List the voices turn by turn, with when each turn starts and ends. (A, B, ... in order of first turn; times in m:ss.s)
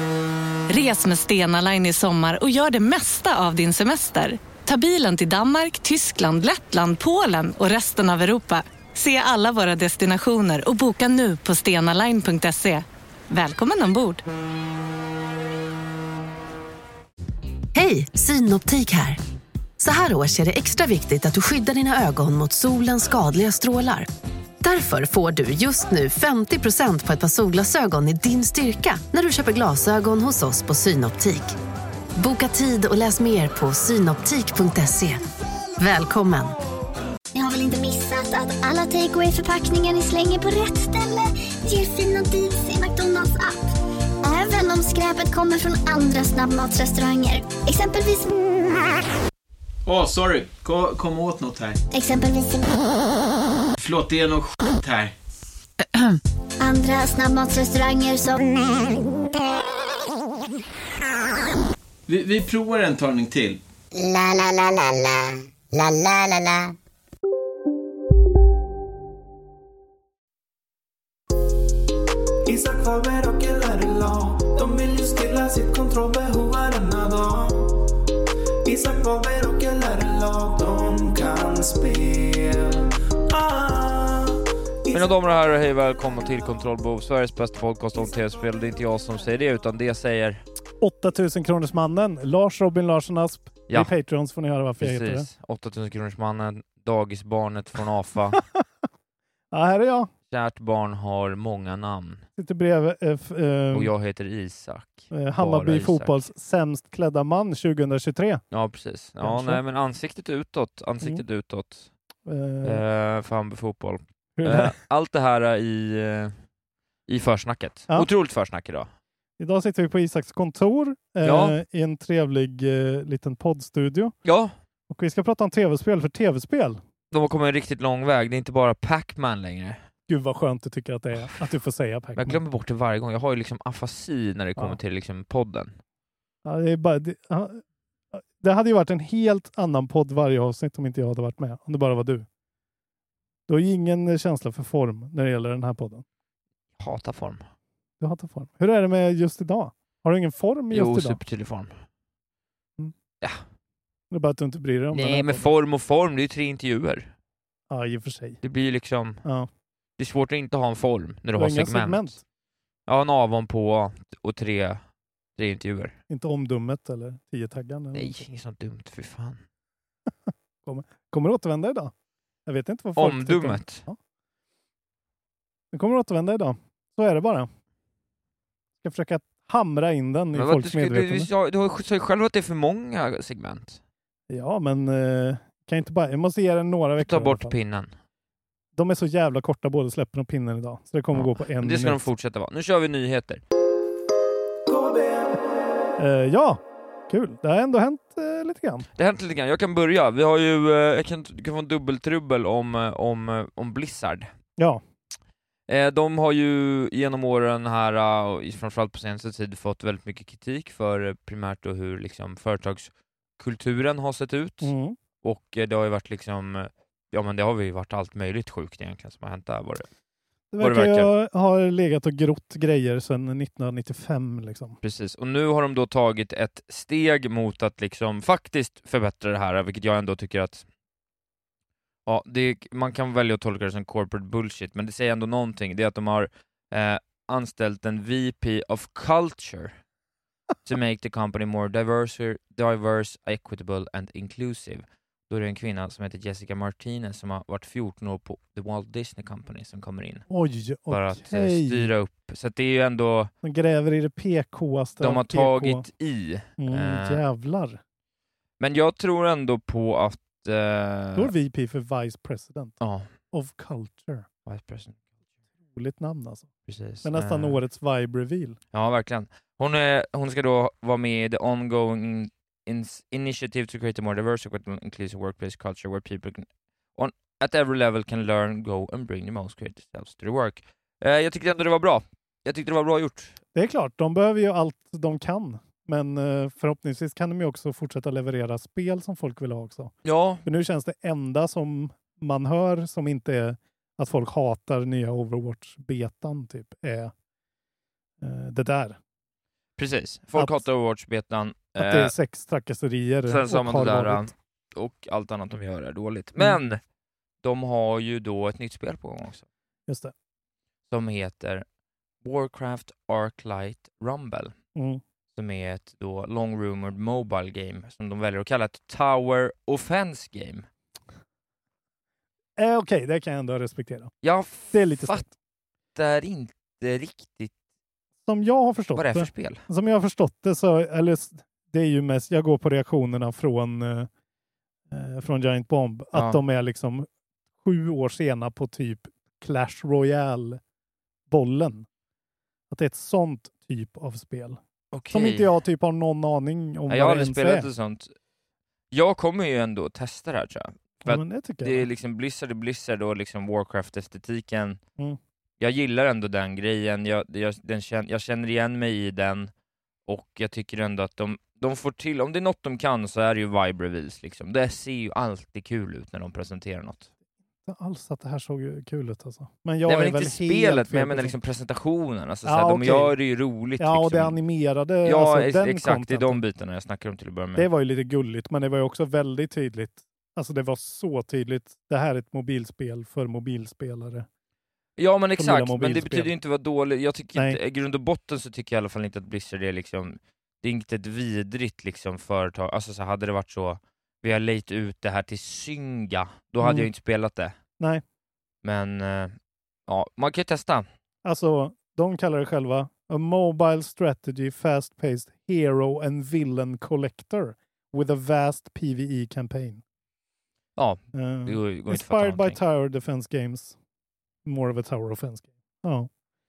0:00.7-0:14.2 A
0:17.7-0:19.2 B
0:19.8-0:24.1 B
0:24.6-0:31.5 B
0:32.2-0:35.3 B
0:35.8-0:36.6 B
0:37.4-0:43.6 C
0:44.2-0:48.4 C
0:49.9-0:51.8 D
0:51.9-0:52.8 C
0:53.8-0:55.2 D
0:56.6-0:59.0 C
1:02.1-1:03.6 D
1:03.9-1:06.8 E
1:12.4-1:17.9 F
1:18.6-1:25.2 F
1:24.9-1:30.4 G
1:30.8-1:35.3 H
1:33.7-1:33.9 G
1:34.8-1:38.4 G
1:39.5-1:40.1 H
1:40.3-1:42.2 G
1:42.4-1:43.9 H
1:43.7-1:46.3 G
1:45.1-1:48.4 H
1:48.5-1:51.9 G
1:49.2-1:49.6 H
1:52.3-1:52.8 H
1:52.6-1:56.4 G
1:54.4-1:54.8 H
1:57.1-1:58.9 G
1:59.4-2:04.1 H
2:01.2-2:01.6 G
2:04.2-2:04.6 G
2:04.9-2:06.8 H
2:07.1-2:09.8 G
2:10.1-2:12.4 H
2:11.2-2:11.5 G
2:12.2-2:15.8 G
2:16.4-2:17.6 H
2:18.1-2:22.3 H
2:23.5-2:26.0 H
2:26.8-2:27.5 G
2:28.0-2:31.2 H
2:30.7-2:31.8 G
2:34.1-2:35.5 H
2:34.9-2:37.1 G
2:37.7-2:38.4 H
2:38.4-2:39.2 G
2:39.2-2:39.5 H
2:40.0-2:42.1 G
2:41.4-2:42.2 H
2:42.9-2:44.8 G
2:45.4-2:46.0 G
2:46.1-2:48.2 H
2:47.9-2:49.4 G
2:50.6-2:51.9 H
2:52.5-2:54.0 H
2:53.0-2:53.8 G
2:55.7-2:57.5 H
2:58.8-3:01.3 H
3:00.3-3:03.8 G
3:04.3-3:07.6 H
3:07.0-3:08.0 G
3:08.8-3:12.0 H
3:11.1-3:13.4 G
3:14.7-3:15.5 F
3:16.0-3:18.9 H
3:19.0-3:24.3 G
3:24.6-3:24.8 H
3:25.7-3:39.9 G
3:34.6-3:35.0 H
3:40.5-3:44.8 H
3:40.6-3:41.1 G
3:44.8-3:50.7 G
3:52.1-3:59.8 G
4:00.7-4:10.2 G
4:10.3-4:11.9 H
4:10.9-4:13.3 G
4:13.4-4:15.9 H
4:15.0-4:17.2 G
4:16.6-4:17.8 H
4:18.6-4:21.3 G
4:21.2-4:22.8 H
4:22.8-4:23.1 G
4:23.3-4:24.3 H
4:24.5-4:25.0 G
4:25.7-4:26.5 H
4:26.7-4:27.6 G
4:27.0-4:28.6 H
4:28.7-4:43.4 G
4:43.6-4:49.9 H
4:50.0-4:50.4 G
4:50.4-4:57.1 H
4:58.2-4:59.0 H
4:59.8-5:02.1 G
5:00.4-5:00.6 H
5:01.8-5:04.3 H
5:03.3-5:06.8 G
5:07.4-5:09.5 G
5:09.9-5:10.1 H
5:10.9-5:11.6 G
5:12.2-5:14.6 G
5:14.8-5:15.0 H
5:15.3-5:20.7 G
5:22.6-5:24.1 H
5:24.2-5:25.3 G
5:24.7-5:25.3 H
5:26.0-5:27.5 G
5:28.2-5:34.1 H
5:29.0-5:29.6 G
5:34.9-5:37.1 H
5:36.1-5:36.4 G
5:37.6-5:40.6 H
5:41.3-5:41.9 H
5:42.7-5:44.6 H
5:44.9-5:45.6 G
5:45.1-5:47.7 H
5:46.9-5:48.1 G
5:48.9-5:54.8 G
5:51.0-5:51.9 H
5:55.6-5:59.5 G
6:00.1-6:07.1 G
6:07.7-6:11.4 H
6:09.9-6:14.4 G
6:12.4-6:13.1 H
6:13.8-6:16.4 H
6:15.0-6:17.7 G
6:17.6-6:24.3 H
6:25.0-6:37.6 G
6:25.4-6:26.3 H
6:27.3-6:27.6 H
6:36.6-6:36.9 H
6:38.6-6:39.4 G
6:39.9-6:40.9 G
6:41.2-6:49.8 H
6:50.8-6:52.6 G
6:51.1-6:53.8 H
6:54.4-6:56.1 H